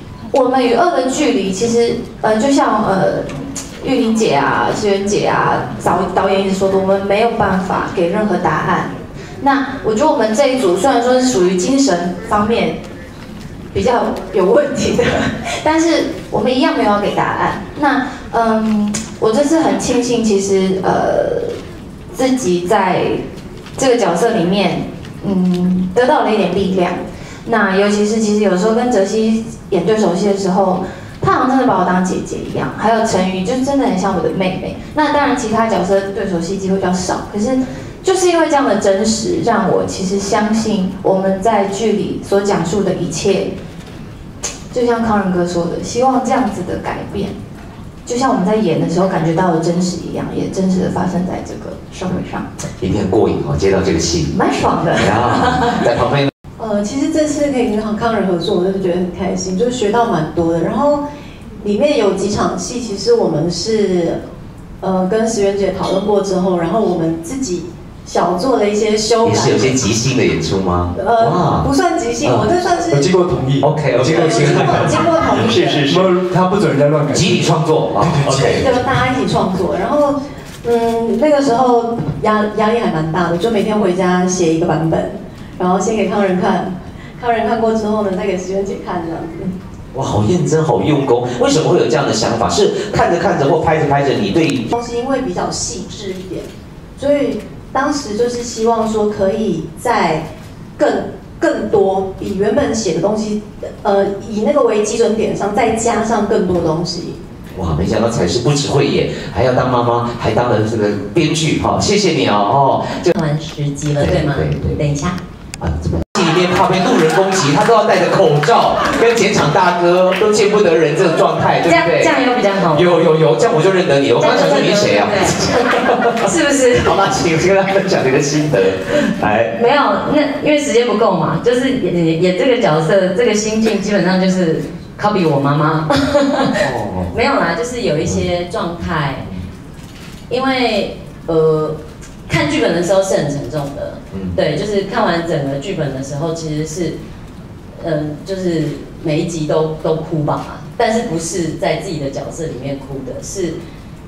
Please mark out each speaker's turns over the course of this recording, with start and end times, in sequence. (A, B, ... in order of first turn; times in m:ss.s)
0:00.3-0:03.2 A
0:03.8-0:12.8 A
0:13.7-0:21.6 A
0:22.1-0:23.2 A
0:23.8-0:43.5 A
0:44.7-0:47.4 A
0:48.0-0:52.5 A
0:52.8-0:54.3 B
0:54.3-0:55.8 A
0:55.0-0:56.3 B
0:56.6-1:01.0 C
1:01.6-1:04.2 C
1:04.8-1:09.8 C
1:09.2-1:11.7 B
1:10.9-1:13.1 C
1:12.9-1:18.8 D
1:13.6-1:16.1 B
1:14.0-1:15.9 C
1:17.1-1:18.6 B
1:18.4-1:29.5 C
1:29.9-1:34.6 B
1:34.7-1:40.2 C
1:40.8-1:47.2 C
1:47.5-1:53.1 B
1:53.1-1:55.2 E
1:54.0-1:54.8 B
1:55.6-2:02.1 B
2:01.6-2:03.0 E
2:02.7-2:09.6 B
2:04.2-2:05.6 E
2:06.2-2:07.0 E
2:09.5-2:19.3 E
2:16.6-2:17.1 B
2:20.3-2:27.0 E
2:24.1-2:24.4 B
2:27.8-2:33.6 E